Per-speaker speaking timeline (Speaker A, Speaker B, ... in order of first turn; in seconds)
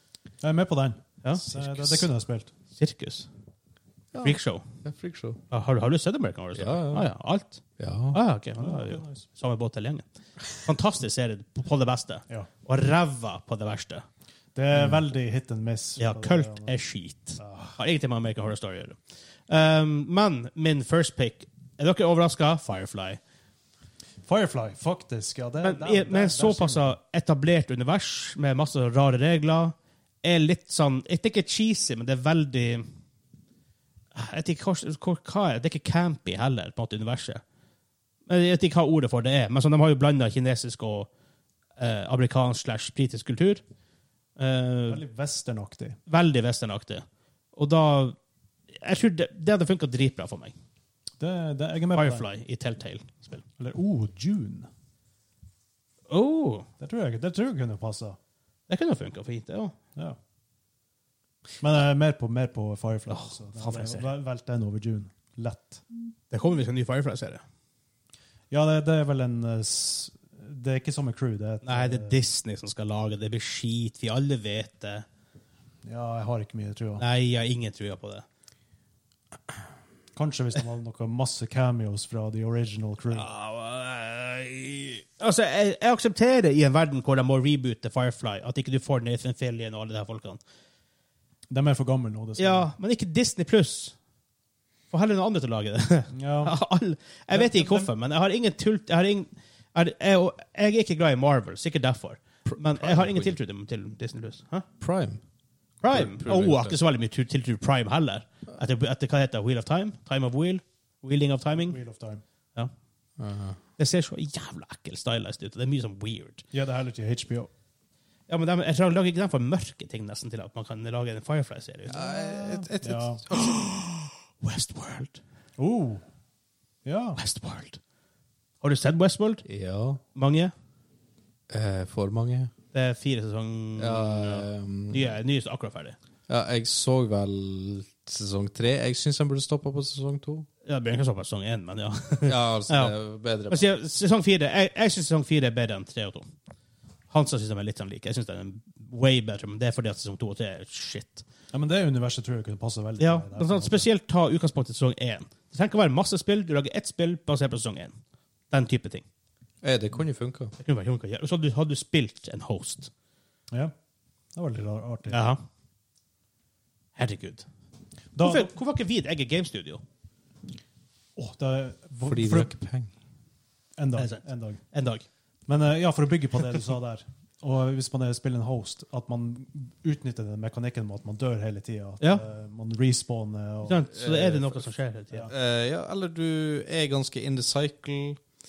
Speaker A: 0.4-2.5, 8.6-9.2, 14.5-16.7, 17.4-17.8, 24.2-26.9, 44.9-46.0, 51.2-52.3, 53.6-54.7, 56.8-58.2, 61.6-65.8, 68.5-72.2, 75.8-77.0, 80.1-83.3, 91.5-92.7, 96.1-96.6, 97.3-97.9, 111.6-112.2, 116.5-117.5, 121.9-123.2, 125.6-126.0, 126.8-127.2, 151.5-153.9, 164.3-165.3, 168.1-168.5, 171.2-172.5, 173.8-174.6, 175.5-183.9
Speaker B: 1.5-1.9, 4.1-5.4, 6.5-7.1, 7.8-8.2, 102.5-103.3, 104.8-105.2, 105.9-106.8, 113.2-113.6, 121.9-123.7, 129.4-130.0, 131.5-132.5, 133.8-135.2, 136.3-140.5, 142.2-143.7, 159.6-160.5, 172.1-172.9, 183.9-184.7, 185.3-188.2
Speaker C: 2.7-3.3, 4.2-4.6, 5.5-7.6, 8.1-14.0, 16.0-23.2, 25.6-32.9, 34.1-37.4, 38.3-41.1, 41.8-43.6, 44.4-45.0, 46.1-48.1, 48.8-50.5, 51.9-53.4, 56.1-56.7, 58.7-59.7, 63.1-64.1, 66.3-67.4, 71.6-75.0, 77.0-78.2, 83.1-90.4, 92.4-94.0, 94.9-104.7, 105.8-111.8, 113.8-116.4, 118.3-122.1, 123.3-125.2, 127.2-127.8, 128.6-129.4, 130.1-130.5, 132.7-135.9, 140.7-142.9, 143.5-146.3, 147.1-151.2, 153.0-158.0, 158.5-159.0, 160.6-162.9, 165.1-165.4, 166.9-167.4, 168.2-169.8, 174.0-175.0, 183.7-185.3